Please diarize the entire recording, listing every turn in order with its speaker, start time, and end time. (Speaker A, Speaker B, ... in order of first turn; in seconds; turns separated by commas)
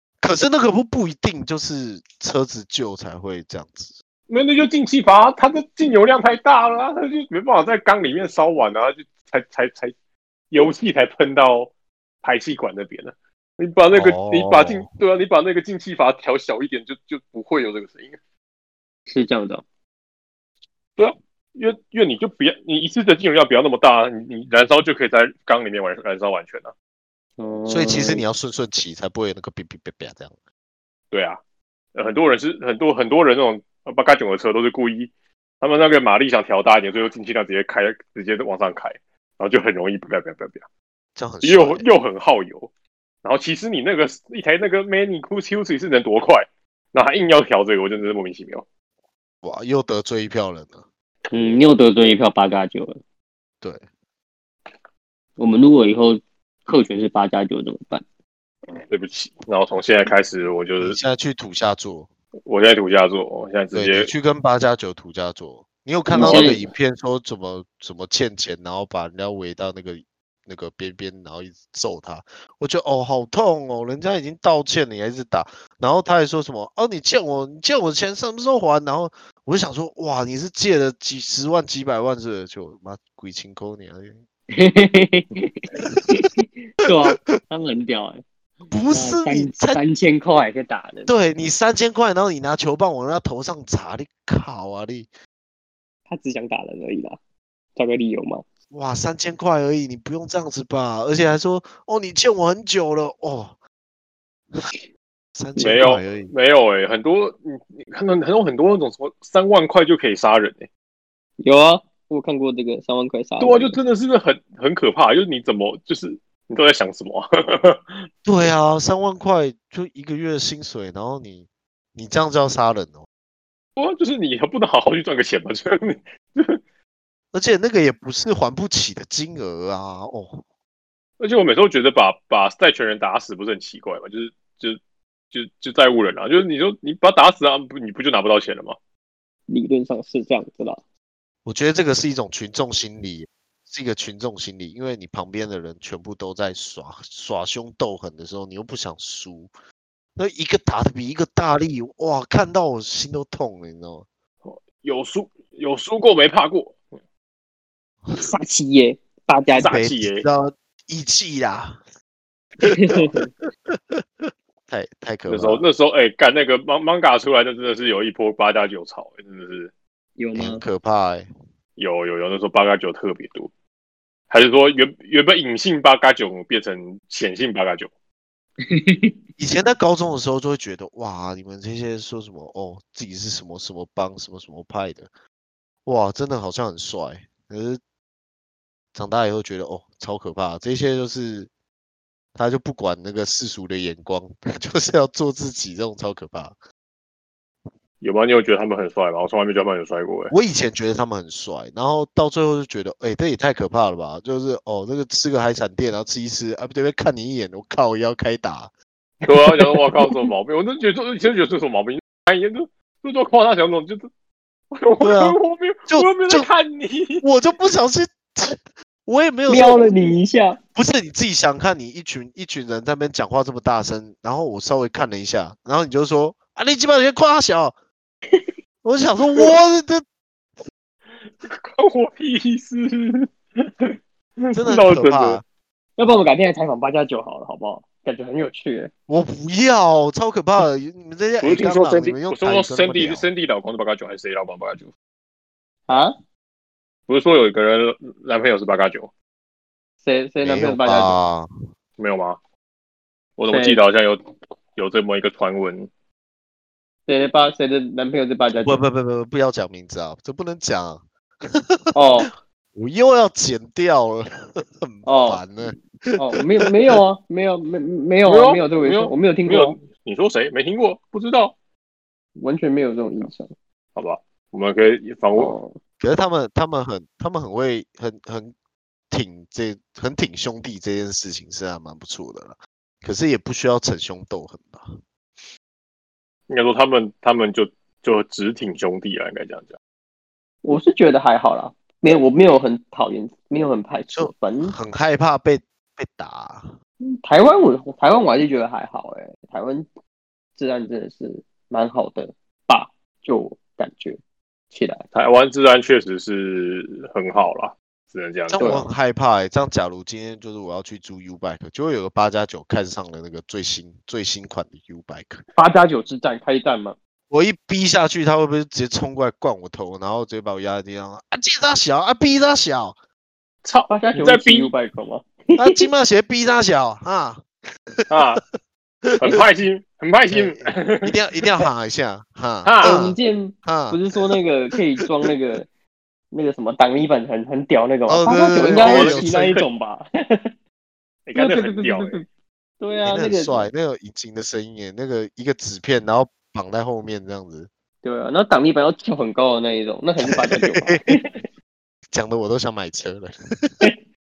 Speaker A: 0.2-3.9, Speaker B: 4.3-9.9, Speaker B: 10.5-11.7, Speaker B: 12.2-18.2, Speaker A: 13.9-14.9, Speaker C: 19.1-19.6, Speaker B: 21.0-26.7, Speaker C: 27.4-28.2, Speaker A: 27.7-30.3, Speaker B: 31.1-31.4, Speaker B: 31.9-40.6, Speaker A: 41.1-41.9, Speaker B: 41.4-42.7, Speaker B: 43.2-48.6, Speaker A: 49.4-51.6, Speaker C: 51.3-53.0, Speaker C: 55.4-58.0, Speaker B: 58.9-61.0, Speaker A: 60.8-62.1, Speaker B: 62.5-64.1, Speaker A: 63.7-84.2, Speaker C: 66.1-66.6, Speaker B: 66.2-66.6, Speaker C: 84.5-88.2, Speaker A: 88.7-89.8, Speaker C: 88.9-91.1, Speaker A: 91.0-95.1, Speaker C: 96.1-97.2, Speaker C: 97.8-98.4, Speaker A: 98.7-103.5, Speaker A: 105.3-106.3, Speaker B: 105.6-110.7, Speaker C: 111.4-113.8, Speaker B: 113.4-118.1, Speaker A: 118.2-123.0, Speaker B: 123.8-126.6, Speaker A: 127.3-130.4, Speaker B: 131.2-134.8, Speaker B: 135.3-138.8, Speaker C: 139.5-140.8, Speaker A: 141.4-149.5, Speaker A: 150.2-154.1, Speaker B: 154.4-156.8, Speaker C: 158.2-159.8, Speaker B: 159.6-160.3, Speaker A: 159.6-161.8, Speaker C: 162.6-163.3, Speaker A: 162.6-163.2, Speaker A: 163.7-165.6, Speaker B: 165.3-169.7, Speaker C: 170.2-170.6, Speaker A: 170.3-171.3, Speaker B: 171.8-173.5, Speaker B: 174.3-177.9, Speaker C: 178.7-179.1, Speaker A: 179.4-185.1, Speaker A: 185.8-187.8, Speaker A: 188.9-191.5, Speaker A: 192.3-196.5, Speaker B: 198.0-200.3, Speaker A: 200.3-208.7, Speaker B: 209.3-214.1, Speaker C: 209.3-210.2, Speaker B: 214.7-217.2, Speaker A: 215.0-215.4, Speaker A: 215.9-216.5, Speaker A: 217.2-219.9, Speaker C: 219.5-220.6, Speaker A: 220.8-227.7, Speaker A: 228.8-230.0, Speaker B: 231.2-235.4, Speaker A: 234.5-235.4, Speaker C: 236.0-238.9, Speaker A: 239.1-243.3, Speaker B: 241.4-244.9, Speaker C: 245.9-246.1, Speaker B: 247.1-249.1, Speaker C: 250.0-251.1, Speaker A: 250.4-251.5, Speaker B: 252.0-252.4, Speaker B: 253.4-254.2, Speaker C: 253.5-253.8, Speaker B: 254.7-255.9, Speaker C: 257.1-258.8, Speaker A: 258.6-262.0, Speaker C: 261.9-262.3, Speaker A: 262.7-267.0, Speaker C: 265.1-265.4, Speaker C: 266.2-269.8, Speaker B: 268.2-271.5, Speaker C: 272.4-273.5, Speaker B: 273.9-275.5, Speaker C: 275.3-275.8, Speaker A: 276.0-278.5, Speaker A: 279.1-285.0, Speaker B: 286.5-289.8, Speaker C: 290.6-294.7, Speaker A: 294.1-296.7, Speaker C: 297.2-299.9, Speaker C: 300.6-304.2, Speaker C: 304.7-305.0, Speaker B: 305.1-308.7, Speaker A: 308.5-315.4, Speaker C: 308.5-308.9, Speaker C: 315.5-316.9, Speaker A: 317.3-322.9, Speaker B: 323.6-324.7, Speaker C: 323.9-325.9, Speaker A: 325.6-328.4, Speaker B: 328.1-328.4, Speaker A: 329.0-329.4, Speaker B: 329.2-331.6, Speaker A: 330.3-334.4, Speaker B: 332.6-333.0, Speaker C: 332.8-335.7, Speaker C: 336.3-340.5, Speaker A: 338.1-339.4, Speaker B: 338.6-339.7, Speaker B: 341.2-342.2, Speaker C: 341.3-342.3, Speaker C: 342.8-343.7, Speaker A: 343.0-347.7, Speaker C: 348.0-351.2, Speaker A: 350.2-351.2, Speaker A: 352.1-353.8